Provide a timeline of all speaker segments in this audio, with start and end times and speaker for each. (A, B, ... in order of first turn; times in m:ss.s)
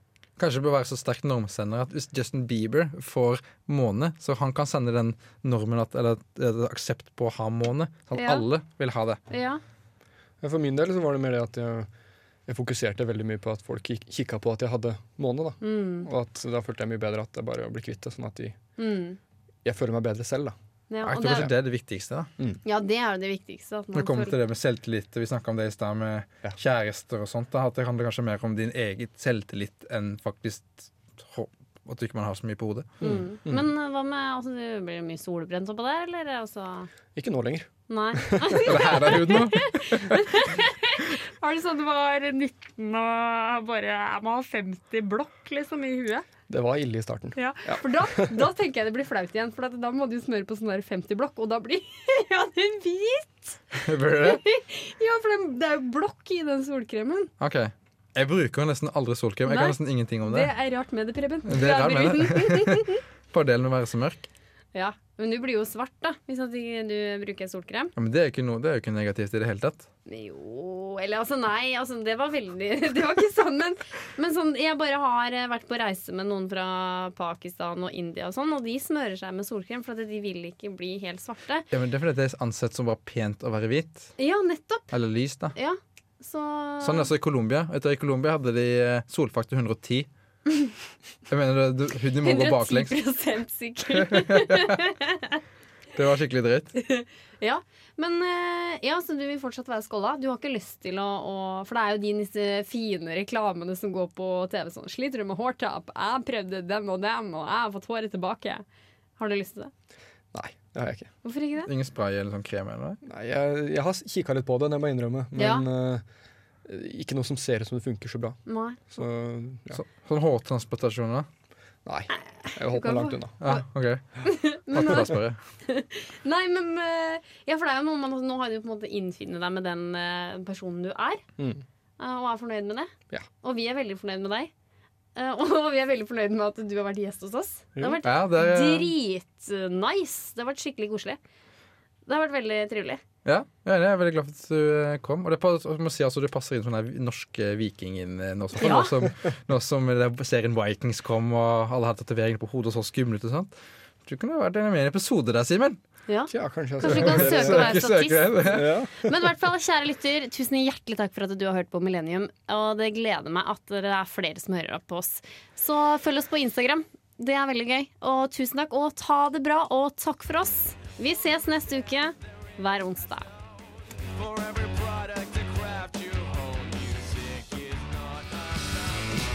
0:00.4-0:09.2 A
0:08.1-0:08.4 B
0:09.3-0:09.6 B
0:10.4-0:11.9 C
0:12.4-0:18.6 C
0:15.6-0:16.1 B
0:18.8-0:19.2 B
0:19.6-0:20.5 C
0:20.9-0:21.5 B
0:21.0-0:22.3 A
0:21.2-0:21.5 C
0:22.6-0:24.4 B
0:23.9-0:32.9 A
0:33.0-0:36.9 B
0:33.0-0:33.6 C
0:37.1-0:38.7 C
0:37.9-0:46.2 B
0:38.6-0:40.1 A
0:46.5-0:48.5 C
0:47.3-0:57.3 B
0:53.8-0:54.4 A
0:57.4-1:00.5 A
0:59.4-1:03.0 B
1:01.4-1:04.3 A
1:04.7-1:07.9 B
1:08.0-1:09.9 A
1:10.1-1:21.7 B
1:21.7-1:24.1 A
1:24.2-1:24.9 B
1:24.9-1:25.5 A
1:25.5-1:27.1 B
1:26.8-1:30.1 A
1:31.3-1:33.0 A
1:32.2-1:35.4 B
1:34.0-1:34.8 A
1:35.9-1:36.7 A
1:36.8-1:48.6 B
1:49.2-1:49.7 B
1:50.3-1:51.1 C
1:51.2-1:51.7 B
1:51.6-1:53.0 A
1:53.0-1:56.0 C
1:55.4-1:55.6 B
1:56.6-1:58.4 C
1:58.4-1:59.0 B
1:58.9-1:59.8 C
1:59.7-2:01.3 A
2:01.8-2:03.4 C
2:02.4-2:03.6 B
2:03.4-2:05.4 A
2:04.2-2:05.1 B
2:05.6-2:11.2 B
2:11.4-2:11.6 C
2:12.0-2:14.5 B
2:15.2-2:21.2 B
2:18.0-2:18.9 A
2:22.0-2:23.0 B
2:23.2-2:33.5 A
2:28.6-2:28.9 B
2:28.6-2:29.1 C
2:34.0-2:35.8 A
2:36.1-2:53.3 B
2:36.3-2:37.7 C
2:36.8-2:38.7 A
2:38.4-2:38.9 C
2:55.5-2:57.8 D